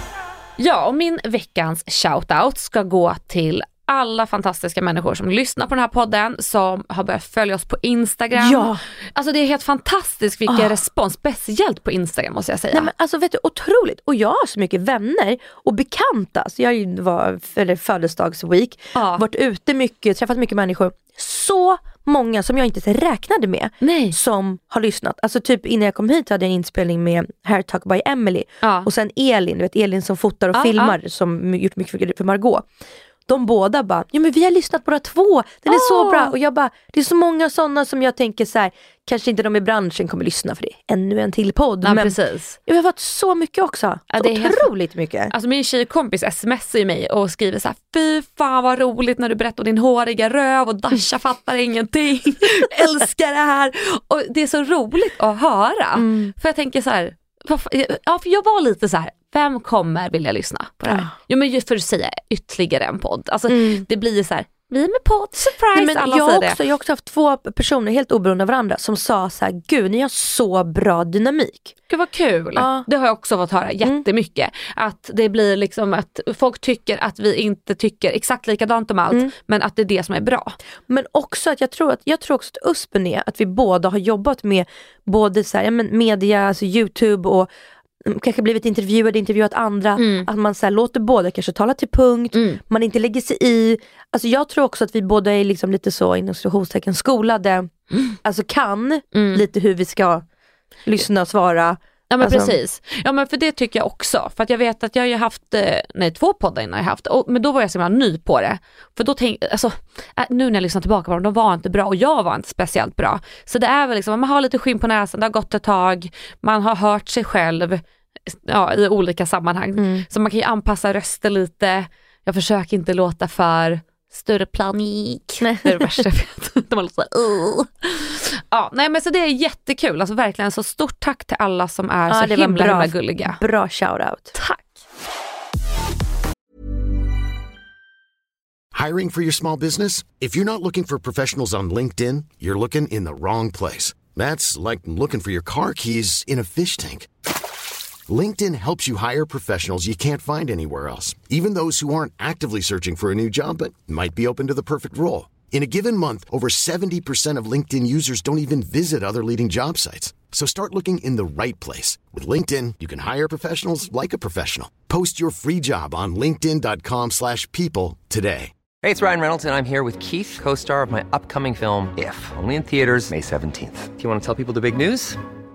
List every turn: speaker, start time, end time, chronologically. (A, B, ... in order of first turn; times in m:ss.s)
0:00.6-0:12.9 A
0:08.4-0:08.8 B
0:10.5-0:10.7 B
0:12.7-0:32.7 B
0:18.9-0:19.2 A
0:23.8-0:24.2 A
0:28.6-0:28.9 A
0:30.5-0:31.0 A
0:33.3-0:42.1 B
0:35.7-0:36.3 A
0:41.8-0:42.6 A
0:42.6-0:45.3 B
0:44.1-0:44.6 A
0:45.3-1:06.6 A
0:56.0-0:56.3 B
1:00.9-1:01.1 B
1:03.5-1:03.8 B
1:05.7-1:11.7 B
1:11.9-1:20.6 A
1:12.6-1:12.8 B
1:20.9-1:27.5 B
1:28.0-1:37.7 B
1:30.0-1:30.3 A
1:32.3-1:32.6 A
1:38.2-1:40.2 B
1:39.1-1:39.4 A
1:40.8-1:42.5 B
1:42.1-2:13.4 A
1:59.8-2:00.0 B
2:05.4-2:06.0 B
2:12.1-2:14.3 B
2:14.3-2:14.8 A
2:18.7-2:27.1 C
2:28.1-2:48.5 C
2:48.8-2:55.2 D